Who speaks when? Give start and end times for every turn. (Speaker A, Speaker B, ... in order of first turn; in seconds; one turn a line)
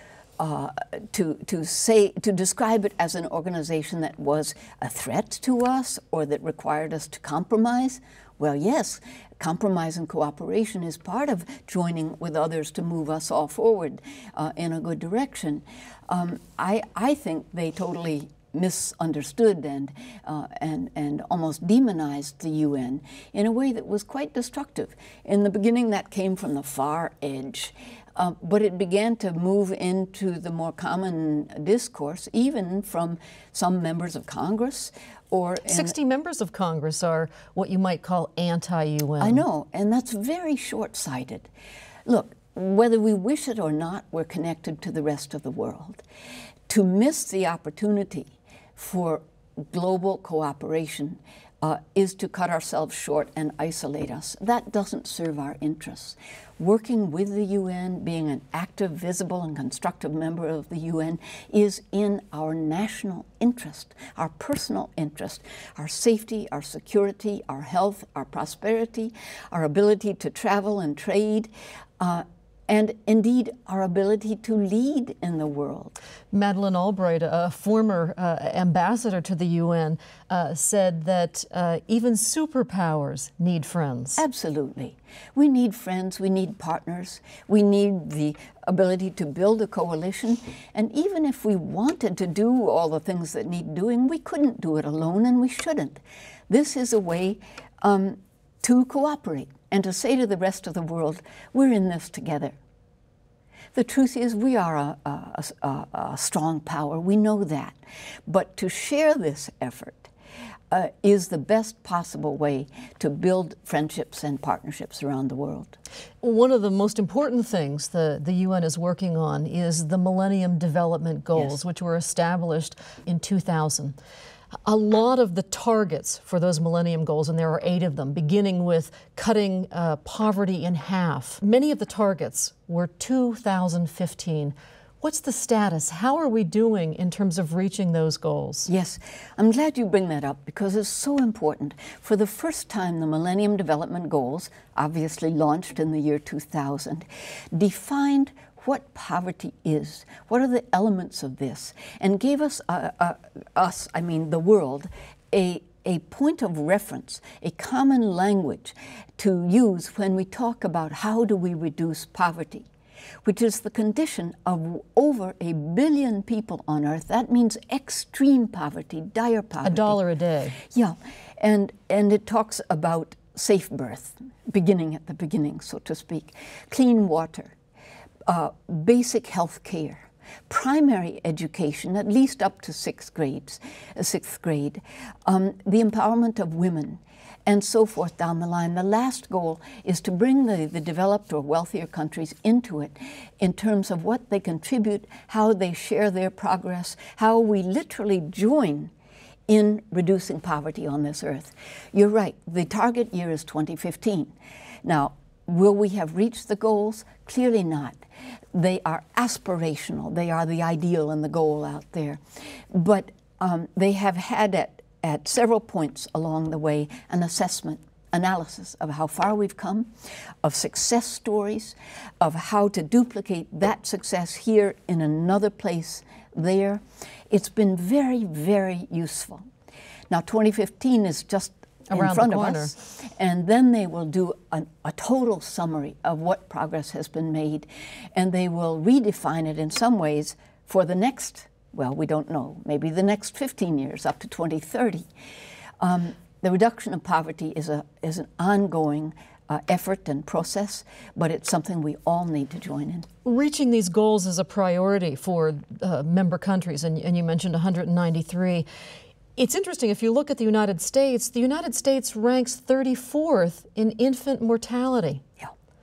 Speaker A: 0.4-36.0
Speaker B: 35.7-39.4
Speaker A: 39.2-41.5
Speaker A: 42.1-46.0
Speaker A: 46.7-76.0
Speaker B: 76.3-84.2
Speaker A: 84.2-102.6
Speaker A: 103.7-110.1
Speaker A: 110.7-115.8
Speaker B: 116.2-124.0
Speaker B: 124.7-138.7
Speaker A: 138.7-162.7
Speaker A: 163.2-170.0
Speaker B: 169.6-170.6
Speaker A: 170.6-177.5
Speaker A: 178.3-198.9
Speaker A: 199.5-208.0
Speaker A: 208.5-219.9
Speaker A: 220.4-229.5
Speaker A: 230.1-245.1
Speaker B: 231.9-232.7
Speaker A: 245.8-253.1
Speaker B: 253.2-258.7
Speaker B: 259.4-265.2